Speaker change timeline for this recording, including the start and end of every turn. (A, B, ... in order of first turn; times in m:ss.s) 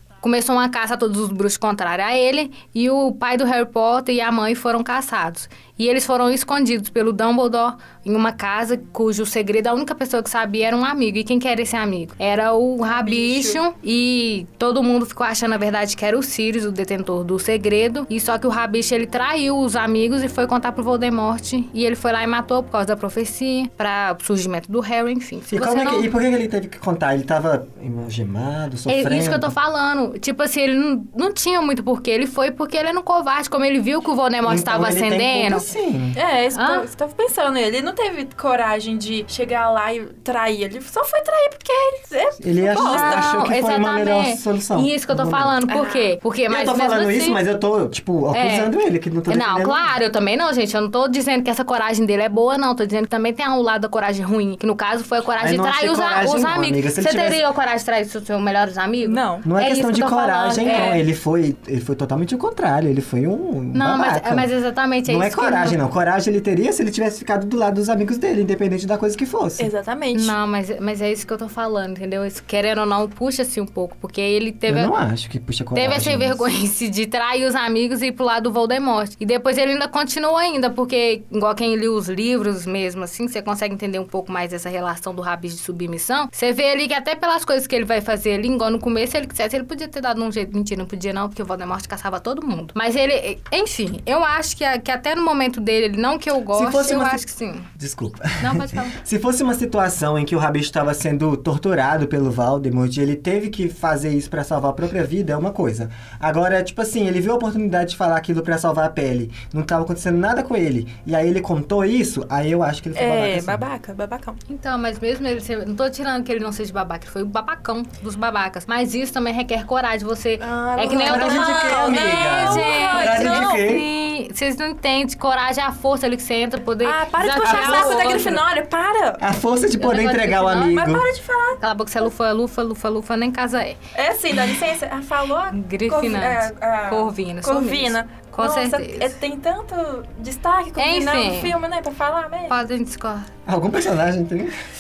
0:00.2-0:26.1 A
0:12.8-0:13.6 B
0:25.5-0:29.5 C
0:28.9-0:35.7 A
0:34.4-0:36.2 C
0:36.1-0:43.4 B
0:36.5-0:36.9 A
0:42.4-0:45.6 C
0:42.7-0:47.4 A
0:45.7-0:46.1 B
0:46.5-0:49.9 C
0:48.3-0:48.7 A
0:49.3-1:01.0 A
0:55.4-0:57.4 C
0:59.0-0:59.5 B
0:59.4-1:04.5 C
1:00.6-1:01.0 B
1:03.7-1:05.8 A
1:05.1-1:09.7 C
1:09.6-1:10.3 B
1:10.1-1:14.9 A
1:14.7-1:16.5 C
1:15.8-1:37.7 A
1:36.5-1:53.7 C
1:38.4-1:39.0 A
1:52.9-1:54.4 B
1:54.5-2:08.4 A
2:00.4-2:03.6 B
2:01.0-2:03.9 C
2:06.8-2:09.2 B
2:07.4-2:08.3 C
2:09.2-2:11.1 C
2:09.8-2:10.8 A
2:10.6-2:11.6 B
2:11.6-2:13.8 A
2:14.0-2:22.6 B
2:15.5-2:19.1 A
2:20.8-2:21.6 A
2:22.5-2:23.3 A
2:23.5-2:24.6 C